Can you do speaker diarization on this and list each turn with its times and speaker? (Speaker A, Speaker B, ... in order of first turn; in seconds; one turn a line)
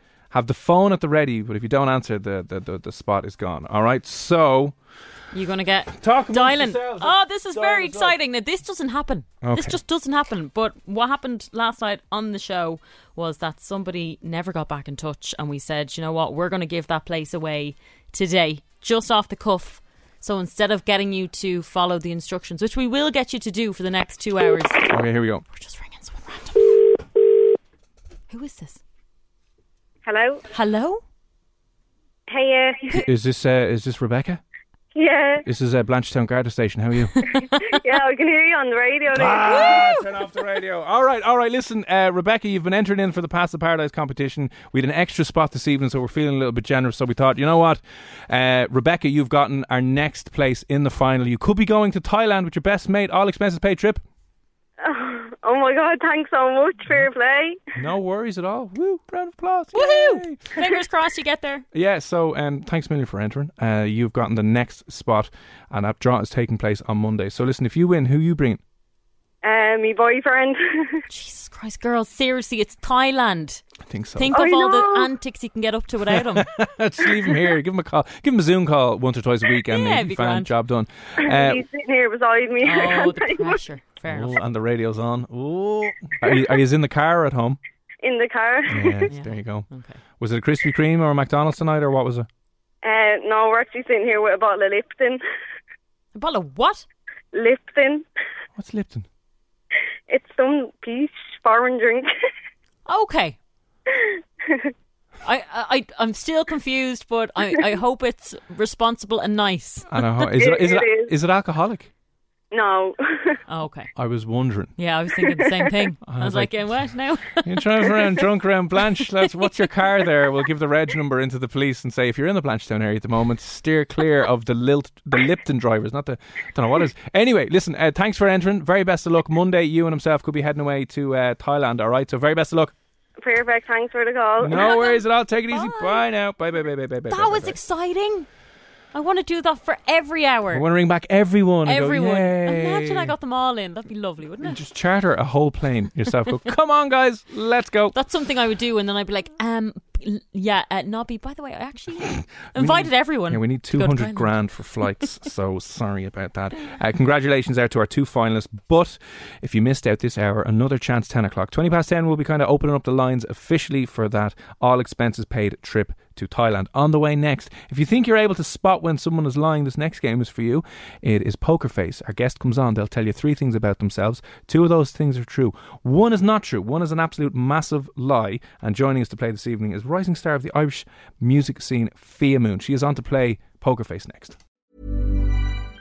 Speaker A: 0.3-4.8
Speaker B: 5.3-24.9
Speaker A: 6.0-8.2
Speaker A: 9.4-9.8
Speaker A: 24.9-25.4
Speaker B: 25.5-26.8
Speaker B: 28.3-28.8
Speaker C: 30.1-30.4
Speaker B: 30.5-31.0
Speaker C: 32.3-33.0
Speaker A: 32.9-34.4
Speaker C: 34.9-35.5
Speaker A: 35.4-37.2
Speaker B: 37.3-37.8
Speaker C: 37.6-39.9
Speaker A: 39.1-54.0
Speaker B: 39.5-40.0
Speaker C: 54.8-57.6
Speaker A: 57.8-60.4
Speaker B: 59.7-61.6
Speaker A: 61.7-68.6
Speaker C: 69.4-71.0
Speaker B: 71.1-73.6
Speaker A: 73.8-74.3
Speaker B: 74.2-76.5
Speaker C: 74.3-75.1
Speaker A: 76.1-81.6
Speaker B: 79.7-80.5
Speaker C: 81.2-83.6
Speaker B: 82.6-84.4
Speaker A: 84.1-87.6
Speaker C: 88.0-89.1
Speaker A: 88.7-89.7
Speaker B: 89.1-90.0
Speaker A: 90.2-92.3
Speaker C: 92.8-95.2
Speaker B: 96.2-96.9
Speaker C: 97.3-98.0
Speaker A: 98.6-99.1
Speaker C: 100.1-102.1
Speaker B: 102.9-103.4
Speaker C: 103.9-104.7
Speaker B: 105.2-109.9
Speaker A: 109.9-111.9
Speaker C: 110.3-111.1
Speaker C: 112.5-113.4
Speaker B: 113.5-113.9
Speaker A: 114.0-114.7
Speaker B: 114.8-118.1
Speaker C: 115.3-115.5
Speaker A: 116.1-116.8
Speaker A: 117.4-132.7
Speaker C: 133.2-134.7
Speaker A: 134.4-137.6
Speaker B: 134.5-136.1
Speaker B: 137.1-138.3
Speaker B: 138.9-140.7
Speaker A: 140.5-143.1
Speaker B: 141.7-144.6
Speaker A: 144.4-147.9
Speaker B: 147.9-154.3
Speaker A: 152.5-184.4